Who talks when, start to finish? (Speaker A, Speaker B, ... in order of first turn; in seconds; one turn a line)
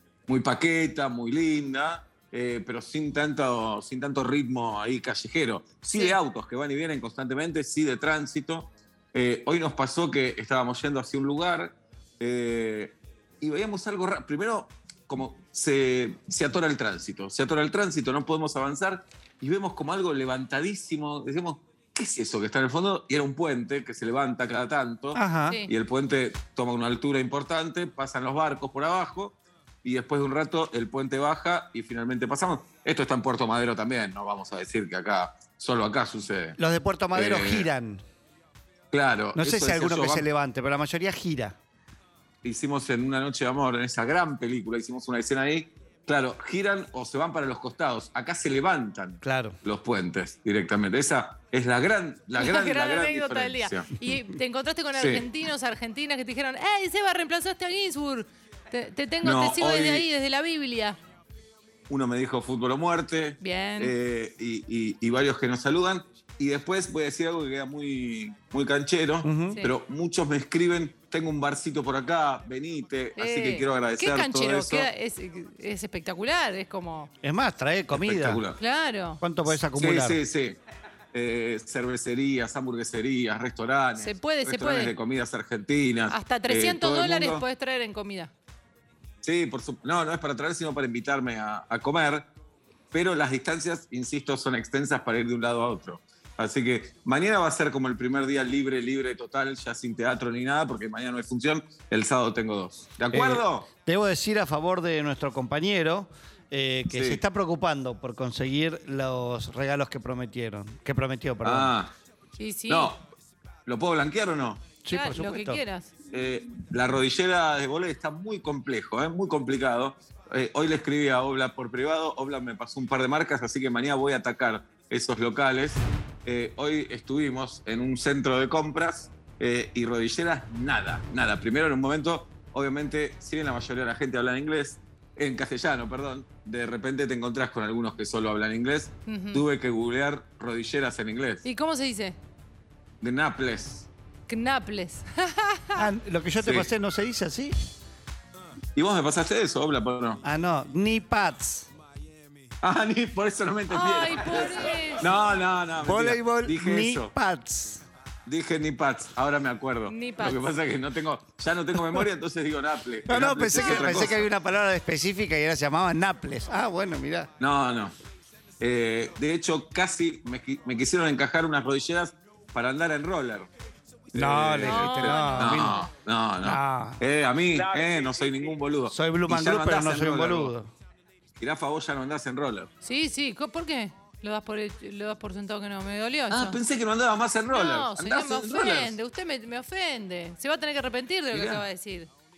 Speaker A: 0.3-36.6
Speaker B: 25.1-25.6
Speaker B: 36.6-38.0
Speaker A: 37.1-37.7
Speaker A: 38.9-40.2
Speaker B: 39.4-41.6
Speaker A: 42.4-53.9
Speaker B: 49.2-49.6
Speaker C: 52.4-61.0
Speaker A: 55.0-55.3
Speaker A: 59.2-60.1
Speaker A: 61.9-74.9
Speaker C: 63.4-63.9
Speaker B: 69.2-69.6
Speaker C: 73.2-77.1
Speaker B: 77.2-78.4
Speaker A: 77.9-78.6
Speaker C: 78.6-79.2
Speaker B: 79.2-80.2
Speaker A: 79.7-80.6
Speaker A: 81.1-87.4
Speaker C: 84.0-85.0
Speaker C: 86.1-88.3
Speaker A: 89.2-92.3
Speaker A: 92.9-103.7
Speaker B: 103.1-111.7
Speaker A: 106.9-107.2
Speaker A: 111.4-111.9
Speaker C: 112.4-112.9
Speaker A: 112.7-113.0
Speaker A: 113.7-114.7
Speaker B: 114.8-115.6
Speaker C: 114.9-115.9
Speaker A: 116.1-141.4
Speaker C: 139.1-139.4
Speaker C: 141.4-142.2
Speaker A: 143.0-143.9
Speaker C: 144.3-145.9
Speaker B: 145.8-147.6
Speaker A: 146.4-146.7
Speaker A: 148.8-150.2
Speaker B: 150.2-151.7
Speaker A: 152.6-157.1
Speaker C: 153.7-155.1
Speaker B: 155.8-157.8
Speaker A: 158.3-164.3
Speaker C: 159.9-160.5
Speaker B: 163.1-167.3
Speaker A: 167.4-167.9
Speaker A: 168.6-173.5
Speaker A: 174.1-180.5
Speaker B: 174.1-175.8
Speaker C: 174.7-175.8
Speaker B: 176.4-177.0
Speaker B: 178.9-180.7
Speaker A: 181.4-182.7
Speaker C: 182.8-186.6
Speaker A: 186.3-188.9
Speaker C: 187.5-192.1
Speaker A: 191.3-191.6